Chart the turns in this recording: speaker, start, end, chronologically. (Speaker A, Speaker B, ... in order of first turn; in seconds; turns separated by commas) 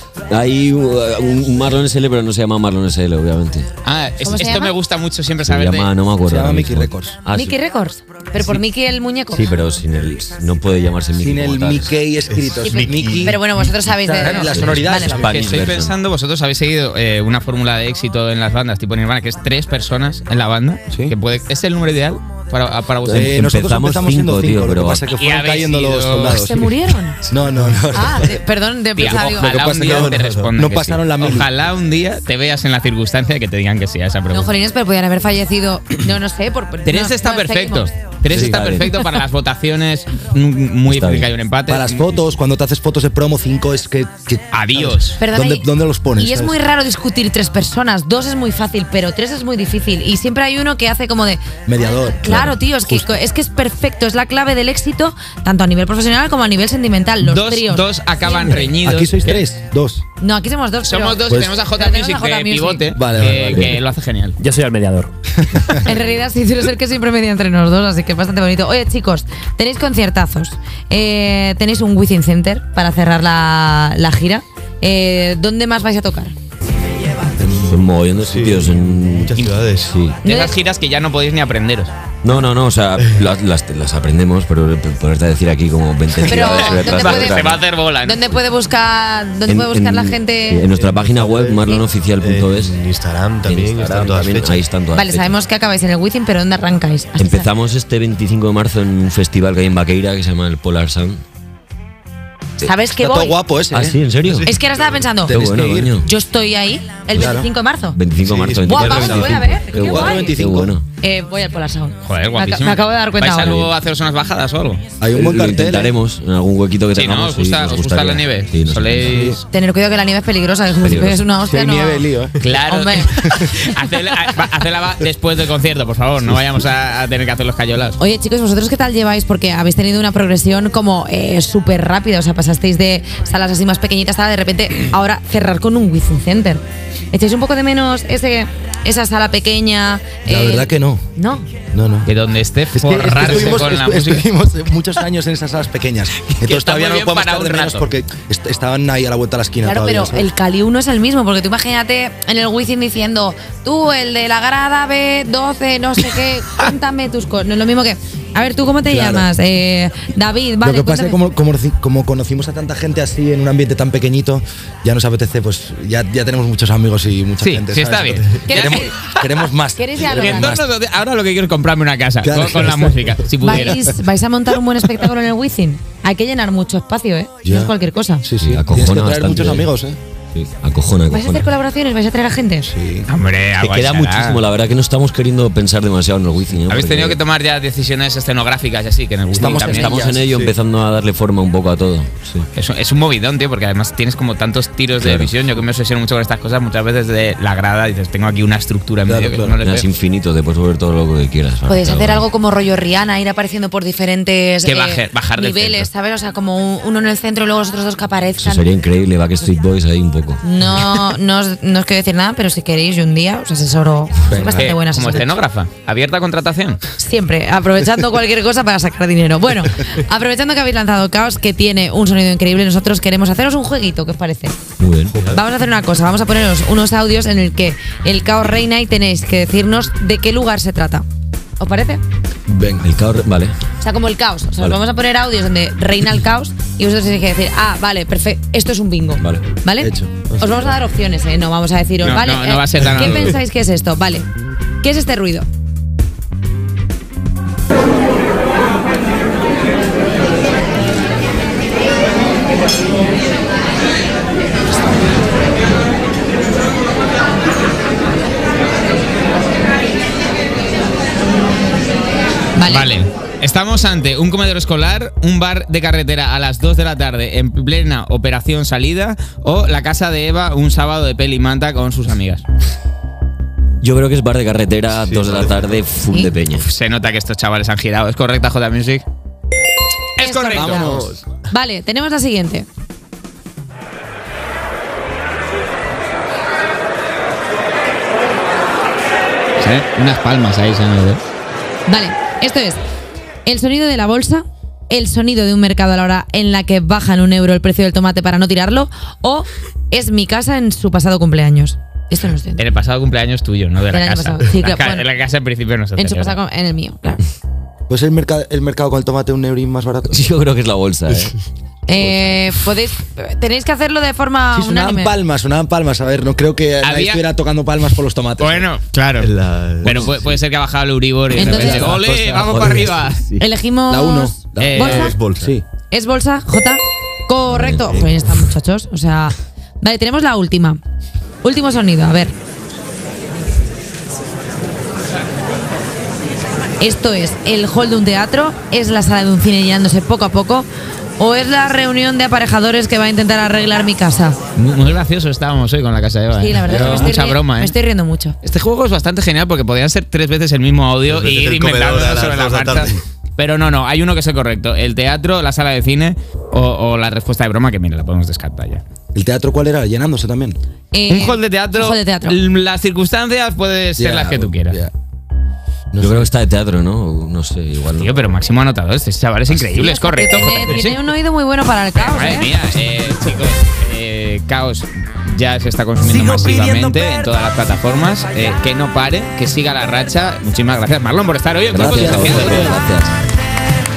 Speaker A: 0.3-3.7, Speaker B: 3.8-5.9, Speaker C: 4.2-4.8, Speaker A: 5.4-7.5, Speaker D: 6.3-7.2, Speaker C: 7.3-9.5, Speaker A: 9.3-12.0, Speaker D: 11.2-15.4, Speaker E: 12.3-13.6, Speaker C: 12.6-15.3, Speaker B: 14.2-14.6, Speaker A: 14.5-15.9, Speaker B: 15.2-23.4, Speaker A: 23.0-25.1, Speaker D: 23.1-26.7, Speaker B: 25.1-26.4, Speaker C: 26.3-27.2, Speaker D: 27.2-28.4, Speaker C: 27.9-29.6, Speaker B: 29.0-34.5, Speaker D: 29.0-31.5, Speaker E: 29.5-30.1, Speaker C: 34.3-37.9, Speaker B: 36.9-42.2, Speaker D: 38.3-38.7, Speaker A: 38.5-38.9, Speaker A: 40.9-41.3, Speaker D: 41.7-46.5, Speaker B: 44.5-45.2, Speaker C: 45.2-58.8, Speaker D: 51.6-53.2, Speaker B: 57.2-59.4, Speaker D: 58.8-60.0, Speaker C: 60.2-62.9, Speaker B: 60.8-64.4, Speaker D: 61.2-61.5, Speaker D: 62.9-63.8, Speaker A: 63.5-63.8, Speaker A: 64.4-65.1, Speaker D: 65.4-65.8, Speaker C: 65.8-76.3, Speaker D: 77.4-77.8, Speaker A: 77.6-80.2, Speaker E: 78.2-80.0, Speaker C: 80.2-80.5, Speaker B: 80.2-81.9, Speaker A: 82.2-87.6, Speaker C: 86.2-90.6, Speaker B: 86.4-88.2, Speaker A: 89.5-92.8, Speaker E: 90.6-94.7, Speaker A: 93.5-95.3, Speaker C: 94.9-97.5, Speaker A: 97.2-101.2, Speaker C: 102.6-103.4, Speaker D: 102.9-104.0, Speaker A: 103.7-104.5, Speaker E: 104.3-105.0, Speaker C: 104.4-105.5, Speaker D: 105.3-106.0, Speaker A: 105.3-106.0, Speaker C: 106.0-108.0, Speaker D: 107.1-107.5, Speaker A: 107.9-110.8, Speaker D: 108.3-110.7, Speaker E: 108.5-109.6, Speaker C: 108.6-110.4, Speaker C: 111.0-113.7, Speaker B: 112.0-114.8, Speaker A: 113.4-113.7, Speaker D: 115.0-115.9, Speaker A: 115.1-119.3, Speaker B: 116.9-119.4, Speaker D: 119.1-119.4, Speaker C: 119.5-122.1, Speaker A: 120.8-121.2, Speaker D: 121.4-122.5, Speaker B: 122.4-128.0, Speaker C: 122.6-123.3, Speaker C: 128.0-141.5, Speaker D: 140.2-141.0, Speaker D: 141.7-142.1, Speaker B: 142.1-144.2, Speaker D: 142.7-150.3, Speaker B: 146.3-147.9, Speaker C: 149.6-161.2, Speaker D: 158.9-159.3, Speaker D: 160.6-170.7, Speaker B: 167.4-169.3, Speaker C: 168.5-168.9, Speaker C: 169.8-170.6, Speaker B: 170.1-173.9, Speaker D: 172.2-173.3, Speaker C: 173.4-178.2, Speaker D: 177.4-180.0, Speaker A: 178.4-179.7, Speaker A: 180.3-181.5, Speaker C: 181.1-182.7, Speaker D: 182.7-183.1, Speaker B: 183.1-184.4, Speaker A: 183.6-187.2, Speaker B: 186.7-190.0, Speaker D: 189.3-190.2, Speaker A: 189.6-192.5, Speaker E: 190.2-190.5, Speaker B: 192.6-199.9, Speaker A: 195.0-195.3, Speaker D: 199.1-199.6, Speaker A: 199.6-202.2, Speaker C: 201.7-208.9, Speaker B: 204.6-205.9, Speaker A: 208.4-210.4, Speaker C: 210.4-215.4, Speaker D: 214.3-214.8, Speaker B: 214.4-216.8, Speaker C: 217.0-224.6, Speaker A: 224.8-225.2, Speaker C: 225.3-231.0, Speaker C: 231.6-232.0, Speaker D: 232.5-232.9, Speaker A: 232.8-233.5, Speaker C: 233.8-244.2, Speaker A: 239.2-239.4, Speaker D: 239.8-240.4, Speaker B: 242.0-243.4, Speaker C: 244.8-245.5, Speaker C: 262.6-262.9, Speaker B: 262.6-272.4, Speaker A: 273.8-276.6, Speaker E: 275.0-275.8, Speaker B: 276.5-279.0, Speaker B: 280.2-281.0, Speaker C: 280.2-281.0, Speaker D: 280.5-281.1, Speaker E: 280.7-281.2, Speaker C: 281.5-282.7, Speaker B: 289.6-291.2, Speaker C: 291.9-292.8, Speaker C: 293.5-302.6, Speaker B: 302.6-306.4, Speaker C: 303.9-305.1, Speaker C: 306.0-307.2, Speaker D: 307.9-310.3, Speaker A: 310.1-311.4, Speaker C: 311.9-315.2, Speaker A: 311.9-312.3, Speaker D: 314.5-318.7, Speaker B: 316.8-317.2, Speaker B: 318.4-323.2, Speaker E: 319.2-320.4, Speaker D: 319.8-320.3, Speaker D: 321.3-322.6, Speaker C: 321.4-321.9, Speaker A: 321.6-323.4, Speaker C: 323.4-325.1, Speaker D: 323.9-325.6, Speaker B: 324.6-325.1, Speaker E: 324.8-325.5, Speaker C: 325.9-330.8, Speaker A: 327.5-327.9, Speaker E: 327.9-328.2, Speaker C: 331.4-332.3, Speaker C: 336.8-344.4, Speaker B: 344.6-347.7, Speaker C: 346.4-348.4, Speaker D: 346.7-347.2, Speaker B: 348.4-358.8, Speaker E: 351.0-352.9, Speaker D: 359.1-360.6, Speaker C: 360.9-362.4, Speaker B: 361.1-364.8, Speaker D: 364.0-364.9, Speaker D: 365.9-366.3, Speaker A: 366.0-368.3, Speaker B: 367.9-371.0, Speaker C: 369.6-372.5, Speaker B: 371.9-382.8, Speaker D: 376.3-377.0, Speaker A: 381.7-383.1, Speaker D: 381.8-382.7